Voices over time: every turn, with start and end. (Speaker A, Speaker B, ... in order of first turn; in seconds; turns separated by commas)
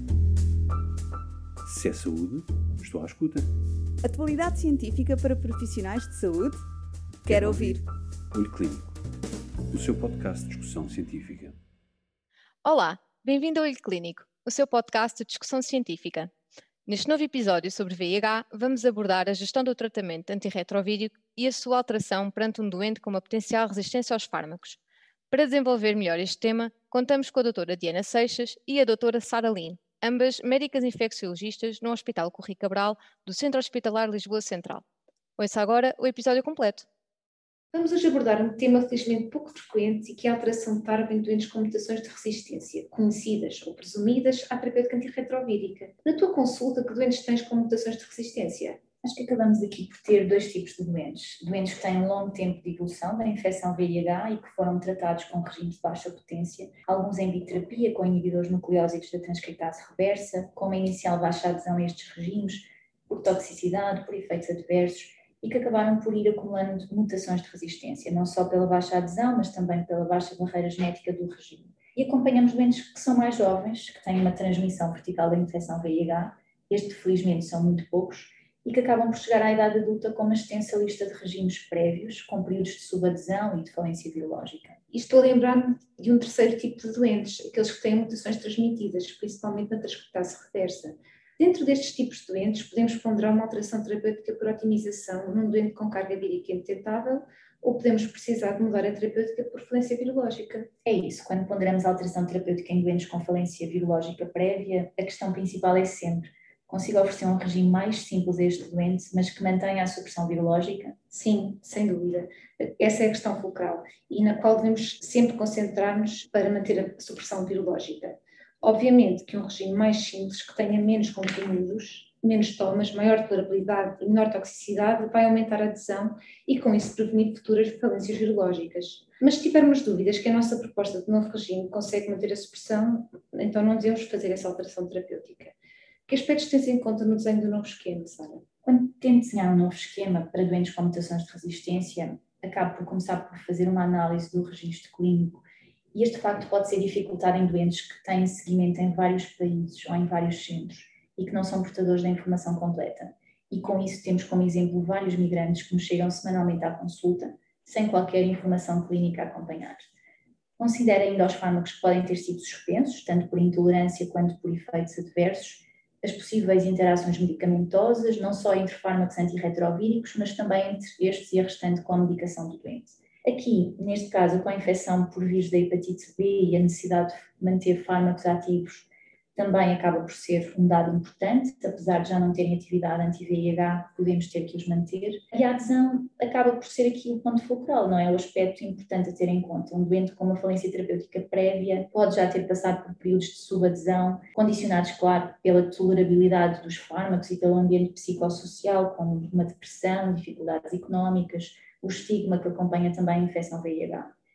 Speaker A: 1.6-3.5, Speaker B: 4.0-6.6, Speaker B: 7.2-7.8, Speaker A: 7.2-7.8, Speaker A: 8.3-9.0, Speaker A: 9.7-11.6, Speaker C: 12.6-16.3, Speaker C: 16.9-24.8, Speaker C: 25.3-34.8, Speaker C: 35.4-36.7, Speaker D: 37.7-48.8, Speaker E: 49.0-84.8, Speaker D: 84.9-100.7, Speaker E: 100.8-111.0, Speaker D: 111.1-135.6, Speaker D: 136.1-138.4, Speaker E: 138.6-159.9, Speaker E: 160.6-204.1